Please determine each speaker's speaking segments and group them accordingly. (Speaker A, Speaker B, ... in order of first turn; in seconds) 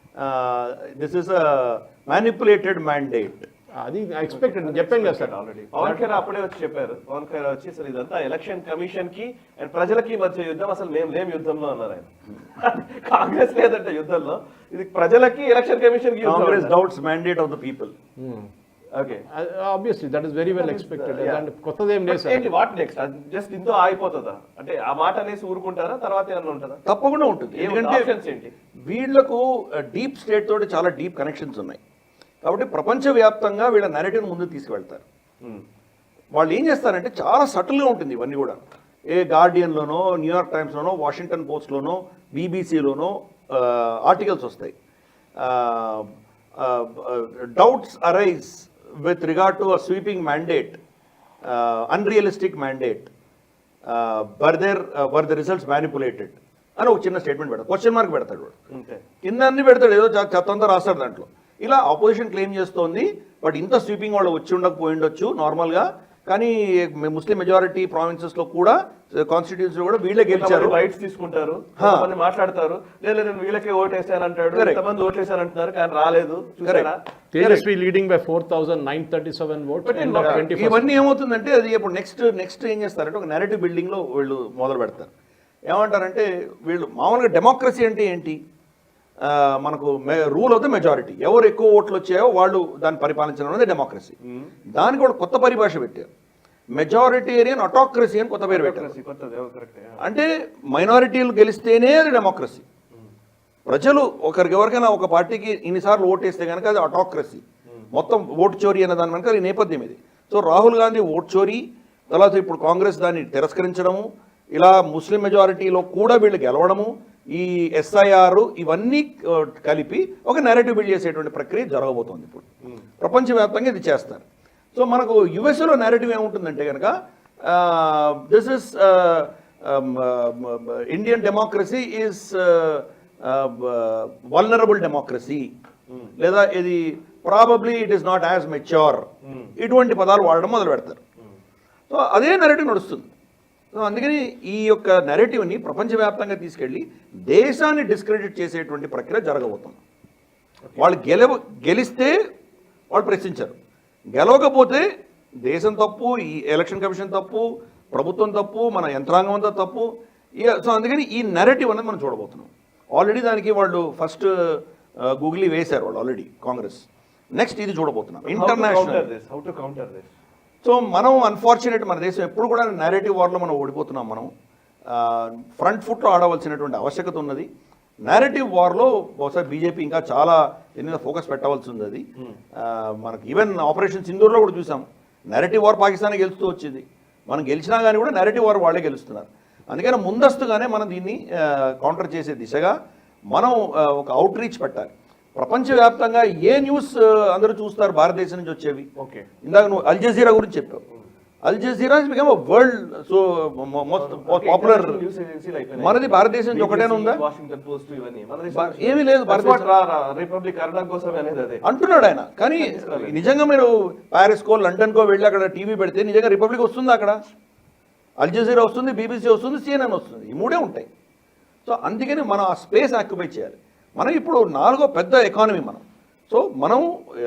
Speaker A: 0.2-3.5, 16.2-17.9, 26.9-28.0, 28.9-31.8, 32.4-35.0, 36.4-38.6, 39.1-44.7, 45.4-46.1, 46.6-50.8, 51.4-53.1, 53.9-58.5, 59.2-70.8, 71.8-72.1, 74.5-74.8, 76.6-77.6, 80.0-85.1, 85.7-88.4, 89.2-94.1, 94.7-96.1, 96.8-98.9, 100.0-102.6, 103.7-122.5, 123.0-124.2, 124.7-135.5, 136.2-139.1, 139.6-141.0, 141.9-143.1, 143.7-149.8, 150.8-152.1, 152.9-153.5, 154.2-154.8, 155.4-159.9, 160.4-169.1, 170.6-174.3, 174.9-177.5, 178.0-182.0, 182.6-192.7, 193.3-198.9, 199.4-200.8, 201.4-205.0, 205.8-207.2, 208.5-209.6, 211.6-217.2, 218.2-220.9, 221.6-226.9
Speaker B: 3.8-6.1, 18.2-18.5, 19.3-22.5, 77.3-81.0
Speaker C: 4.3-16.7, 18.9-19.2, 20.5-21.4, 22.1-26.8, 27.5-28.5, 58.7-59.0, 70.3-77.0, 79.8-80.5, 98.5-100.0, 139.2-139.5, 168.3-170.1, 199.0-199.3, 204.0-211.6, 212.5-213.3